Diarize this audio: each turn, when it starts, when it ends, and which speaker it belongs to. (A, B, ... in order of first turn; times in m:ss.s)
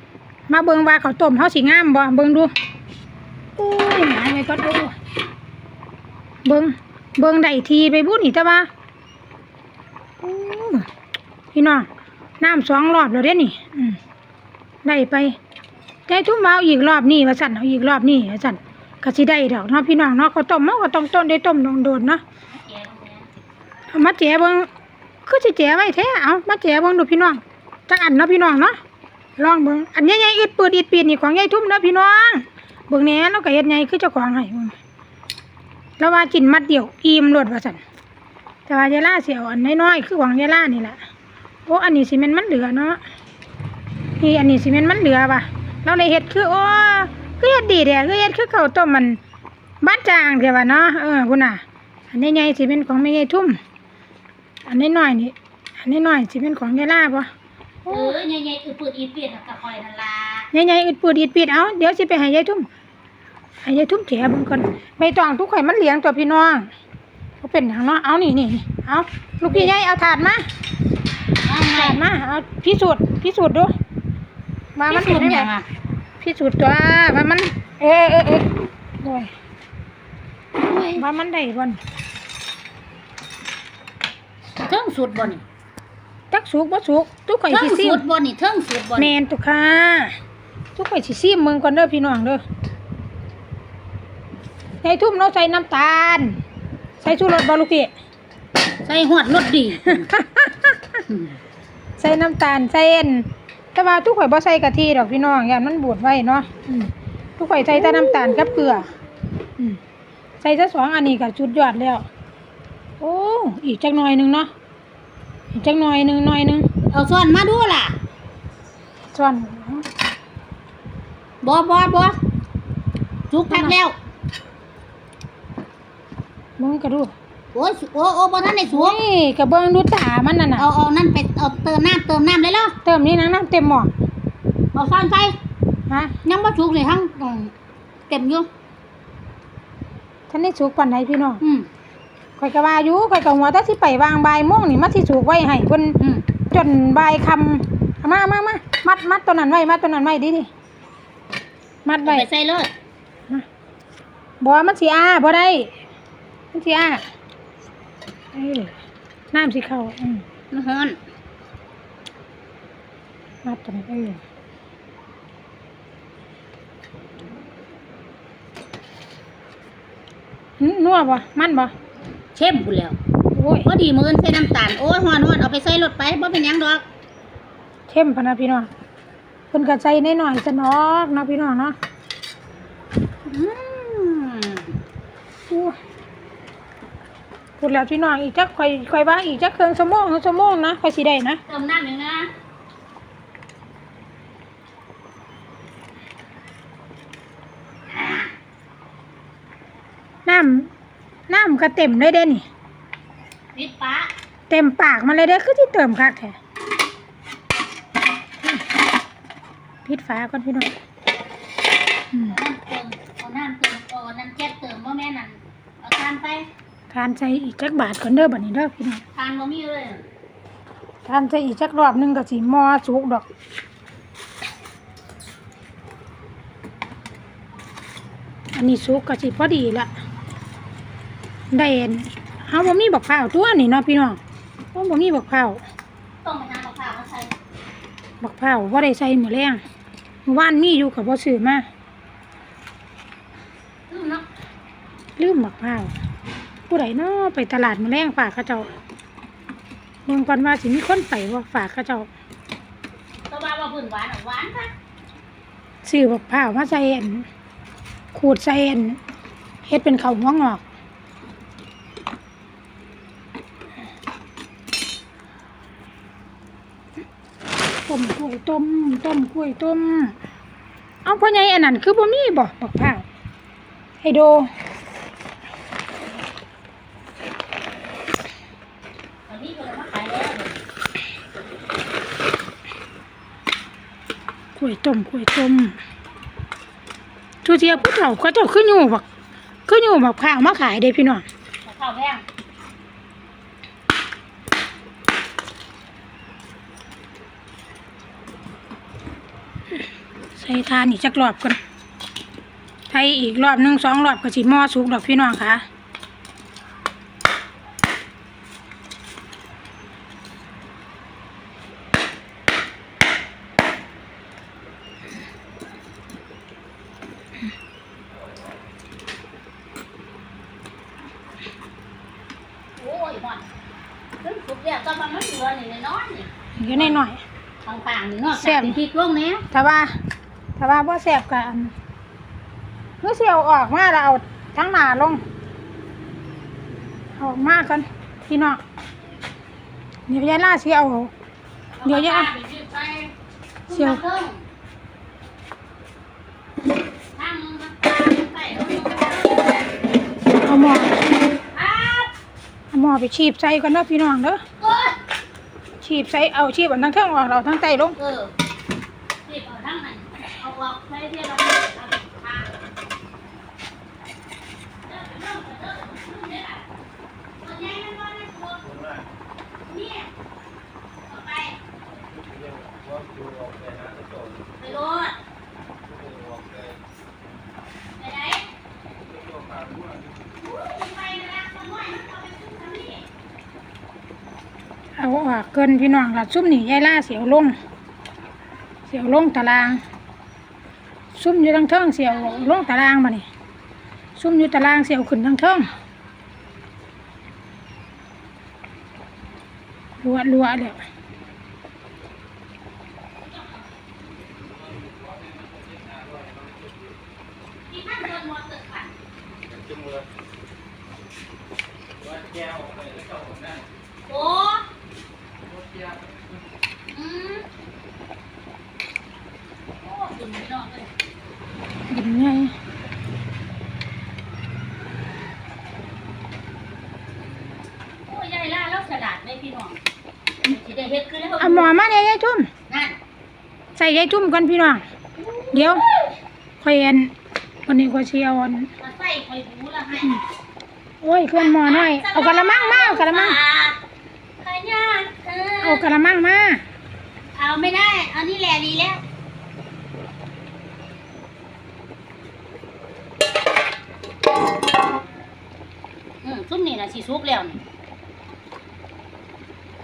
0:00.5-0:02.5 A
0:03.6-0:04.9 A
0:06.4-0:08.7 A
0:10.2-0:10.8 A
0:11.5-0:11.9 A
0:12.4-0:14.0 A
0:14.8-0:15.4 A
0:16.1-0:22.2 A
0:22.5-0:23.3 B
0:23.9-0:24.7 A
0:25.2-0:28.8 A
0:29.4-0:34.8 A
0:36.0-0:37.8 A
0:38.6-0:41.0 A
0:41.7-0:43.0 A
0:44.2-0:49.2 A
0:49.8-0:53.6 A
0:54.6-0:57.3 A
0:57.8-0:58.2 A
0:57.9-1:00.5 B
1:00.5-1:02.6 A
1:03.6-1:06.7 A
1:07.4-1:10.4 A
1:09.4-1:09.7 B
1:11.4-1:12.0 B
1:11.7-1:13.7 A
1:14.8-1:15.5 A
1:14.9-1:15.6 B
1:16.2-1:19.3 A
1:20.6-1:21.0 B
1:21.0-1:21.8 A
1:24.6-1:25.4 B
1:26.3-1:28.0 A
1:27.5-1:29.1 B
1:29.0-1:30.2 A
1:30.8-1:32.4 A
1:34.8-1:36.4 A
1:37.0-1:37.9 A
1:38.8-1:40.1 B
1:40.0-1:40.8 A
1:41.1-1:41.3 B
1:42.0-1:48.9 A
1:50.4-1:52.0 A
1:53.0-1:54.5 A
1:55.5-1:56.6 A
1:56.9-1:58.0 B
1:59.1-1:59.8 A
2:01.4-2:02.2 B
2:03.3-2:04.0 B
2:03.5-2:03.8 A
2:06.6-2:07.1 A
2:07.5-2:09.0 B
2:08.7-2:10.7 A
2:10.6-2:12.8 B
2:12.8-2:13.9 A
2:14.7-2:15.4 B
2:15.9-2:16.2 A
2:16.2-2:17.5 B
2:18.1-2:18.5 B
2:20.3-2:21.4 A
2:21.4-2:21.7 B
2:22.4-2:30.5 A
2:26.0-2:26.2 B
2:31.8-2:32.3 A
2:32.0-2:32.7 B
2:34.4-2:35.7 A
2:36.5-2:37.0 A
2:38.3-2:38.7 A
2:39.3-2:40.2 A
2:40.5-2:41.0 B
2:43.4-2:44.2 A
2:50.6-2:51.7 A
2:52.3-2:53.0 B
2:53.3-2:53.7 A
2:53.6-2:56.8 B
2:57.9-2:58.7 A
2:59.5-3:01.8 A
3:03.2-3:04.7 B
3:05.5-3:05.8 A
3:07.6-3:11.4 A
3:11.5-3:12.3 B
3:17.9-3:18.3 B
3:20.2-3:20.7 A
3:21.3-3:22.4 A
3:23.5-3:24.1 B
3:24.5-3:26.4 A
3:29.8-3:30.7 A
3:32.2-3:36.5 B
3:36.9-3:39.0 A
3:39.1-3:40.0 B
3:41.0-3:43.2 A
3:48.5-3:49.9 A
3:51.5-3:54.2 A
3:54.7-3:55.6 A
3:56.2-3:57.3 B
3:58.2-3:59.6 A
4:00.2-4:01.7 A
4:03.9-4:04.2 B
4:05.2-4:05.9 A
4:06.7-4:08.7 A
4:10.0-4:12.1 A
4:13.3-4:14.7 B
4:15.8-4:17.2 A
4:18.1-4:19.0 A
4:19.6-4:20.6 A
4:27.8-4:30.1 A
4:31.0-4:33.0 A
4:34.0-4:34.5 A
4:39.3-4:40.6 B
4:44.6-4:45.8 A
4:47.4-4:49.0 A
4:49.7-4:51.2 A
4:51.6-4:52.2 B
5:00.3-5:01.6 A
5:02.9-5:05.6 A
5:22.8-5:23.5 B
5:24.2-5:27.0 B
5:26.6-5:27.2 A
5:27.6-5:29.4 B
5:28.4-5:28.8 A
5:29.5-5:29.9 A
5:30.6-5:31.7 A
5:33.0-5:35.2 A
5:37.2-5:38.6 A
5:40.1-5:41.1 A
5:41.8-5:43.1 B
5:41.8-5:42.3 A
5:43.7-5:44.4 B
5:43.7-5:44.0 A
5:47.2-5:49.6 B
5:50.4-5:51.0 A
5:51.5-5:52.1 B
5:52.7-5:54.4 A
5:54.6-5:55.0 B
5:55.8-5:58.0 A
5:58.0-5:58.3 B
5:59.2-6:02.5 B
6:04.8-6:06.6 B
6:07.4-6:08.8 B
6:09.6-6:10.1 B
6:11.1-6:11.6 B
6:14.6-6:15.2 B
6:18.0-6:18.5 B
6:20.3-6:23.0 B
6:25.0-6:27.6 A
6:28.9-6:29.8 A
6:31.1-6:33.2 A
6:32.1-6:32.6 B
6:34.2-6:35.7 A
6:40.0-6:40.8 A
6:43.2-6:43.8 B
6:47.7-6:48.9 B
6:54.1-6:54.6 B
6:56.9-6:57.5 B
6:59.8-7:00.9 B
7:01.9-7:02.5 A
7:08.0-7:09.8 B
7:10.4-7:11.8 B
7:11.4-7:12.5 A
7:12.7-7:13.0 B
7:13.8-7:14.8 A
7:15.2-7:16.1 B
7:15.5-7:15.8 A
7:16.6-7:17.1 A
7:17.6-7:18.7 A
7:18.8-7:20.2 B
7:21.0-7:23.4 A
7:21.3-7:23.8 B
7:24.4-7:25.9 B
7:25.6-7:26.6 A
7:27.3-7:29.0 B
7:36.2-7:37.6 B